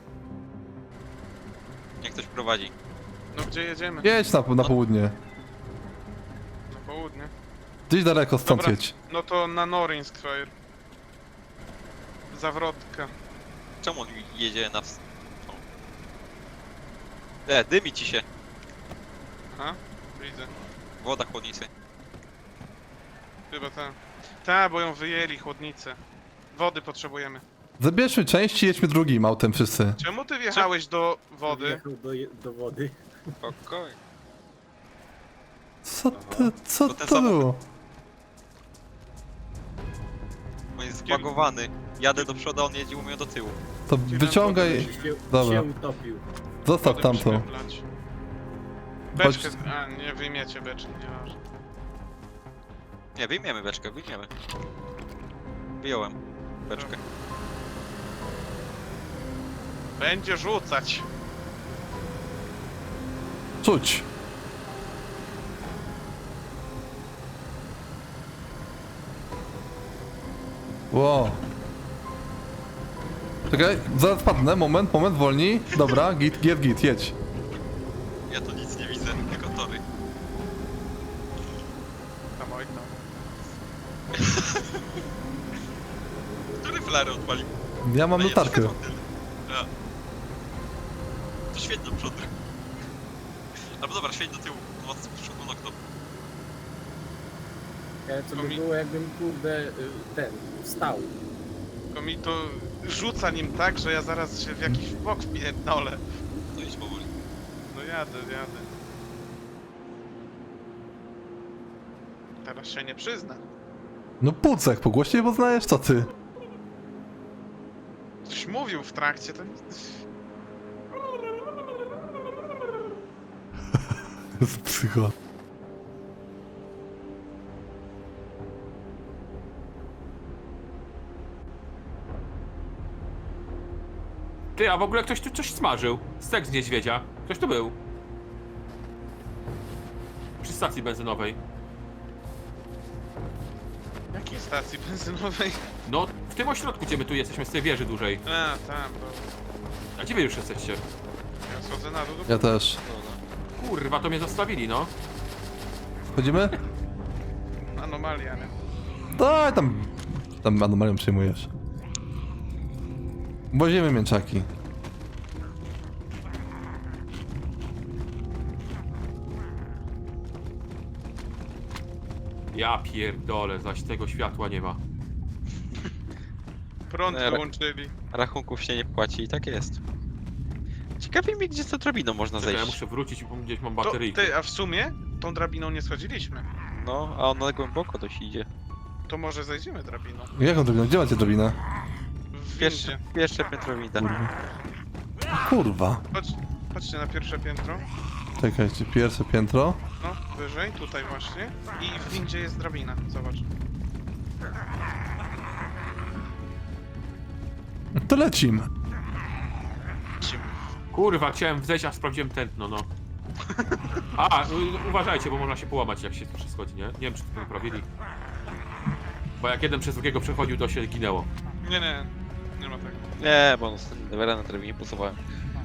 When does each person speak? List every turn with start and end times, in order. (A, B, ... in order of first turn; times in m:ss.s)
0:02.0-0:02.7 A
0:03.3-0:04.1 B
0:04.0-0:05.1 C
0:06.7-0:07.3 B
0:07.9-0:08.9 C
0:08.4-0:10.5 B
0:12.3-0:13.1 B
0:13.8-0:15.6 A
0:17.5-0:18.2 A
0:19.5-0:20.5 B
0:21.0-0:21.7 A
0:23.5-0:26.0 B
0:26.5-0:27.4 B
0:27.8-0:30.0 C
0:30.0-0:31.8 B
0:31.4-0:33.0 D
0:33.4-0:34.0 A
0:35.8-0:37.6 C
0:36.1-0:36.5 D
0:36.8-0:37.5 A
0:40.8-0:43.6 A
0:41.0-0:41.3 B
0:43.9-0:45.6 C
0:44.1-0:45.1 B
0:44.4-0:46.2 D
0:46.6-0:47.4 C
0:46.8-0:47.8 B
0:49.1-0:51.4 B
0:49.2-0:49.5 C
0:53.1-0:54.3 A
0:55.8-0:57.0 A
1:00.0-1:01.1 B
1:03.6-1:04.0 C
1:10.9-1:11.4 C
1:13.5-1:17.1 C
1:18.3-1:19.8 A
1:22.4-1:23.5 B
1:24.2-1:24.6 A
1:26.6-1:27.5 A
1:27.8-1:28.7 C
1:28.2-1:29.7 A
1:31.5-1:32.3 A
1:33.8-1:35.8 A
1:38.1-1:41.1 D
1:38.4-1:38.6 B
1:41.9-1:46.0 B
1:46.5-1:47.1 A
1:47.7-1:48.7 B
1:52.4-1:53.4 B
1:54.2-1:56.1 C
1:58.2-2:00.0 B
2:04.4-2:05.1 C
2:14.6-2:17.8 E
2:20.4-2:21.4 E
2:24.1-2:25.6 B
2:25.9-2:28.2 E
2:28.2-2:29.3 B
2:30.0-2:30.8 E
2:31.4-2:32.6 B
2:32.3-2:32.8 C
2:32.8-2:33.2 A
2:33.6-2:34.9 E
2:36.1-2:36.6 C
2:37.6-2:38.5 B
2:39.1-2:41.5 C
2:43.5-2:44.5 C
2:52.5-2:54.8 E
2:56.9-2:57.9 B
2:57.1-2:57.4 A
2:58.1-2:59.8 A
3:01.0-3:02.8 A
3:02.4-3:04.4 E
3:03.8-3:06.5 B
3:06.7-3:08.5 A
3:09.1-3:10.3 B
3:10.3-3:11.6 C
3:12.3-3:13.0 B
3:12.6-3:14.1 A
3:14.0-3:14.3 C
3:15.4-3:16.0 C
3:16.1-3:17.9 B
3:18.4-3:19.8 C
3:20.0-3:23.4 B
3:27.9-3:28.7 C
3:30.2-3:30.4 B
3:30.9-3:32.9 E
3:33.5-3:33.8 B
3:34.1-3:37.9 E
3:39.4-3:41.3 E
3:41.6-3:43.1 B
3:43.2-3:45.2 A